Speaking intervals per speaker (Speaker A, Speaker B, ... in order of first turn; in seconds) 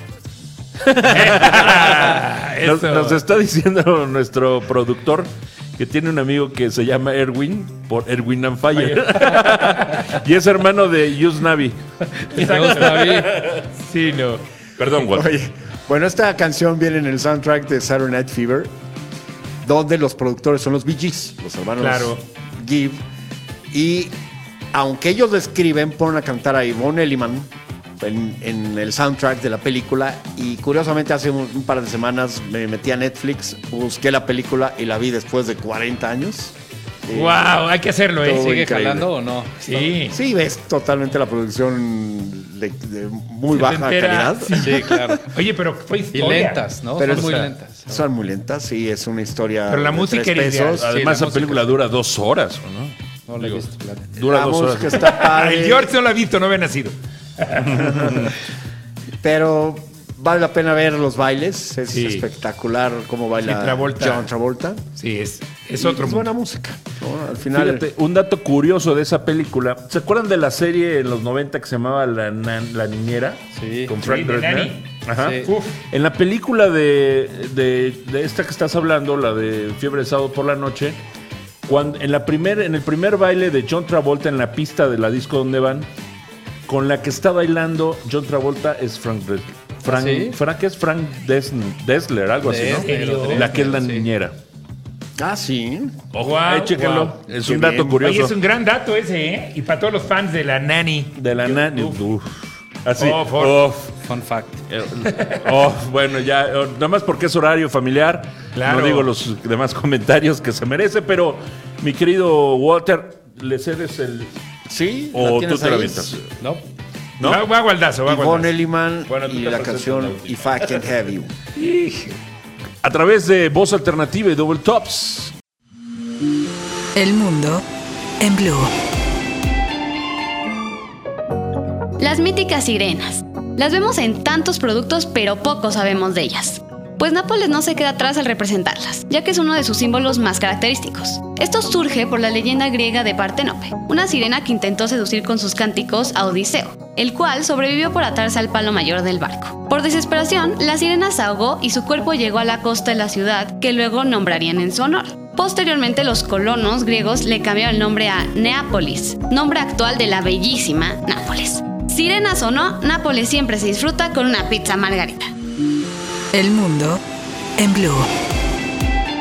Speaker A: 0.8-13.7, 14.8-15.3, 50.8-55.2, 57.6-58.3, 67.5-81.0, 81.7-85.9, 86.7-94.3, 96.1-98.3, 101.2-103.9, 104.7-114.3, 115.1-116.3, 117.2-117.4, 119.1-120.9, 122.8-125.3
Speaker B: 1.1-3.2, 9.2-9.9, 12.3-14.4, 21.8-22.2, 37.1-38.5, 39.6-40.1, 43.5-47.5, 49.7-51.0, 55.0-58.3, 61.9-62.2, 63.4-64.3, 65.0-66.3, 74.0-75.8, 92.6-93.5, 96.2-97.2, 98.0-102.0, 103.0-103.6, 105.1-105.4, 108.5-109.1, 117.2-118.5, 121.5-122.2
Speaker C: 12.3-13.4, 38.3-39.9, 44.6-45.2, 46.1-47.9, 53.3-54.1, 73.5-73.9, 75.2-75.5, 89.8-90.3, 92.4-94.1, 104.0-104.6
Speaker D: 15.0-18.7, 19.6-23.0, 23.7-24.1, 24.7-36.5, 37.0-37.6, 38.2-39.1, 40.1-45.2, 47.0-50.9, 54.2-55.9, 59.2-64.8, 65.8-67.8, 95.2-96.0, 97.4-98.0, 114.7-116.1, 118.0-121.3
Speaker E: 126.9-127.6, 128.2-128.7, 166.3-167.0, 167.6-168.1
Speaker F: 132.0-165.3